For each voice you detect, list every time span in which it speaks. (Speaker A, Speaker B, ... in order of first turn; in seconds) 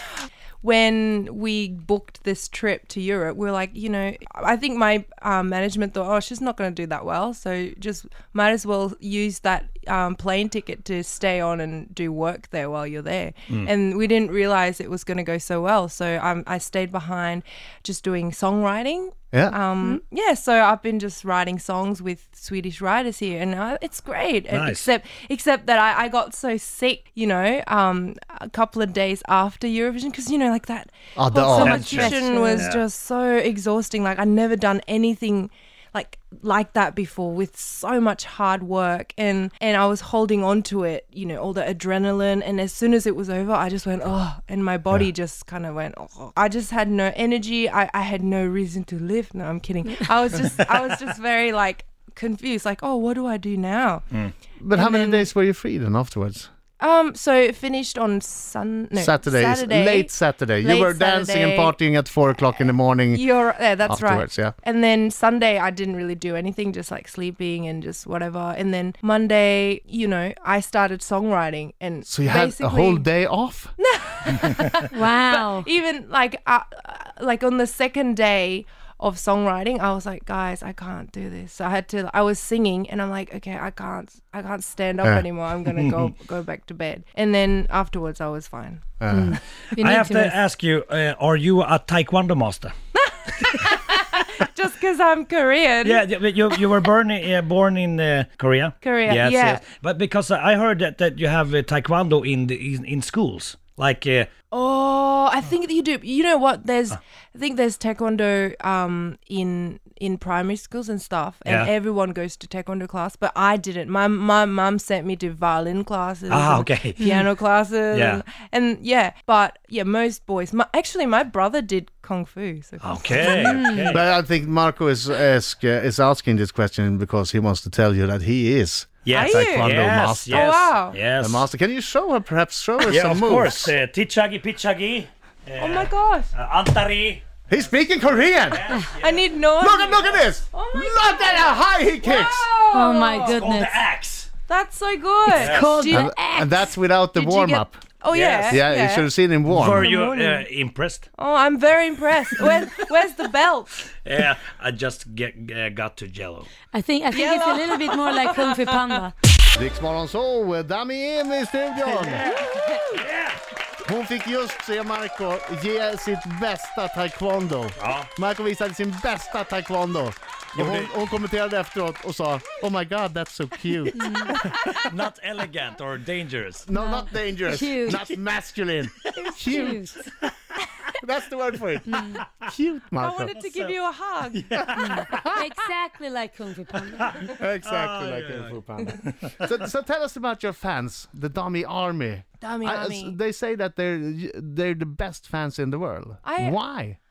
Speaker A: 0.6-54.0, 54.7-55.3, 56.8-61.8, 63.1-73.1, 73.8-88.9, 93.0-96.0, 98.8-99.6, 104.5-124.0, 129.1-129.7, 130.3-131.0, 135.6-136.3, 139.0-143.4, 144.5-146.1, 147.1-149.1, 149.8-150.4, 151.2-153.7, 157.1-158.8, 162.2-163.0, 174.2-174.9, 179.2-179.7, 182.9-185.0, 192.4-193.2, 196.2-196.6
Speaker B: 24.5-24.9, 31.6-32.8, 85.7-86.1, 89.8-92.7, 95.8-104.3, 111.4-111.7, 116.3-117.2, 117.9-118.2, 122.8-124.1, 129.0-131.5, 132.8-137.2, 138.3-139.2, 143.1-144.3, 145.3-145.7, 148.1-148.6, 149.5-151.1, 154.0-156.5, 161.8-163.4, 167.8-168.1, 170.5-171.0, 174.4-176.7, 183.3-183.8, 184.3-185.2, 186.9-189.5
Speaker C: 31.1-32.0, 54.6-56.5, 59.0-63.3, 63.8-64.5, 72.0-73.7, 89.0-89.4, 123.9-130.6, 131.2-133.7, 137.5-138.6, 139.6-142.5, 145.8-147.8, 148.5-149.9, 159.5-162.3, 163.8-174.0, 176.7-179.9, 181.0-183.3, 185.1-185.4, 187.2-197.0
Speaker D: 31.6-32.7, 74.9-75.7, 89.1-90.4, 123.4-123.9, 142.7-143.8, 145.4-146.7, 156.7-159.1, 173.9-174.4, 176.7-178.0, 179.4-179.9, 181.9-182.2, 184.8-187.1